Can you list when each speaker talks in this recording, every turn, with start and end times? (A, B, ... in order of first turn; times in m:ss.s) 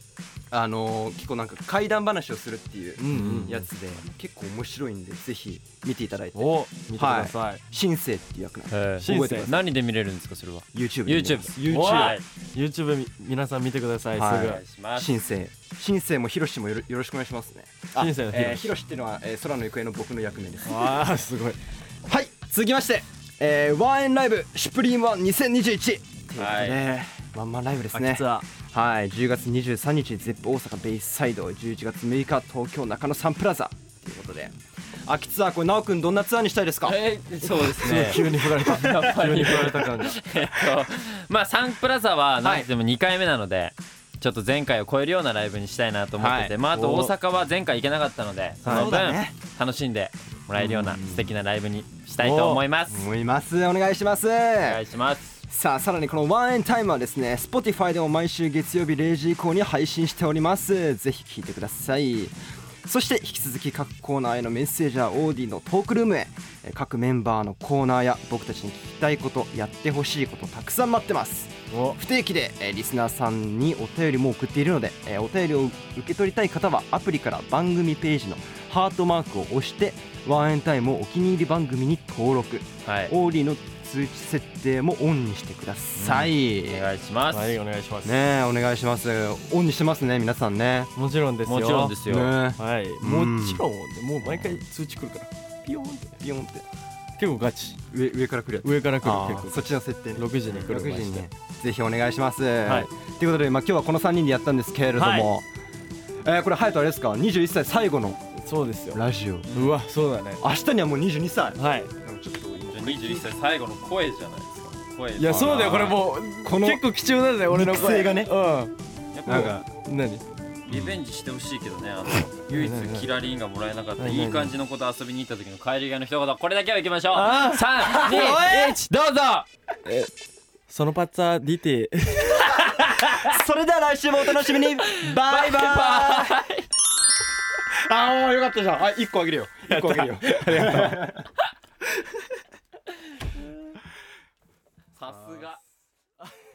0:00.5-0:09.6 A
0:03.0-0:03.6 B
0:06.3-0:07.6 B
0:08.7-0:12.2 C
0:09.0-0:09.6 B
0:10.7-0:12.2 A
0:11.6-0:14.6 B
0:14.1-0:21.0 A
0:14.4-0:15.2 C
0:18.0-0:18.6 B
0:20.6-0:21.6 B
0:22.0-0:37.0 A
0:26.4-0:26.8 C
0:27.9-0:28.5 B
0:36.8-0:53.1 C
0:37.4-0:40.2 B
0:37.6-0:39.7 A
0:42.4-0:42.7 A
0:46.2-0:46.5 A
0:46.7-0:47.1 B
0:48.6-0:48.9 B
0:48.6-0:49.3 A
0:50.6-0:51.3 A
0:52.2-0:52.6 B
0:52.9-0:54.8 A
0:54.6-0:55.4 C
0:55.5-1:26.8 A
1:11.7-1:12.0 B
1:22.8-1:23.1 C
1:26.0-1:27.6 C
1:27.3-1:28.2 B
1:28.0-1:30.9 A
1:31.0-1:32.0 B
1:31.4-1:32.3 C
1:32.1-1:33.6 A
1:32.6-1:36.2 B
1:36.2-1:36.6 A
1:37.2-1:37.8 B
1:37.9-1:45.5 A
1:38.6-1:41.2 B
1:45.0-1:45.3 B
1:46.2-1:48.3 A
1:48.4-1:50.4 B
1:48.9-1:49.5 A
1:49.5-1:49.8 C
1:50.4-1:53.3 A
1:51.6-1:51.9 B
1:52.7-1:56.0 C
1:55.2-1:58.7 B
1:55.2-1:56.8 A
1:57.5-1:58.3 A
1:59.1-1:59.5 C
1:59.2-1:59.7 A
1:59.2-2:00.2 B
2:00.6-2:09.5 C
2:00.7-2:01.0 A
2:02.5-2:03.1 B
2:04.0-2:04.5 B
2:07.1-2:08.8 B
2:07.9-2:08.5 A
2:09.8-2:10.1 B
2:10.7-2:13.3 B
2:13.0-2:16.4 A
2:14.8-2:16.7 C
2:17.6-2:21.3 A
2:19.7-2:21.1 B
2:25.0-2:25.6 C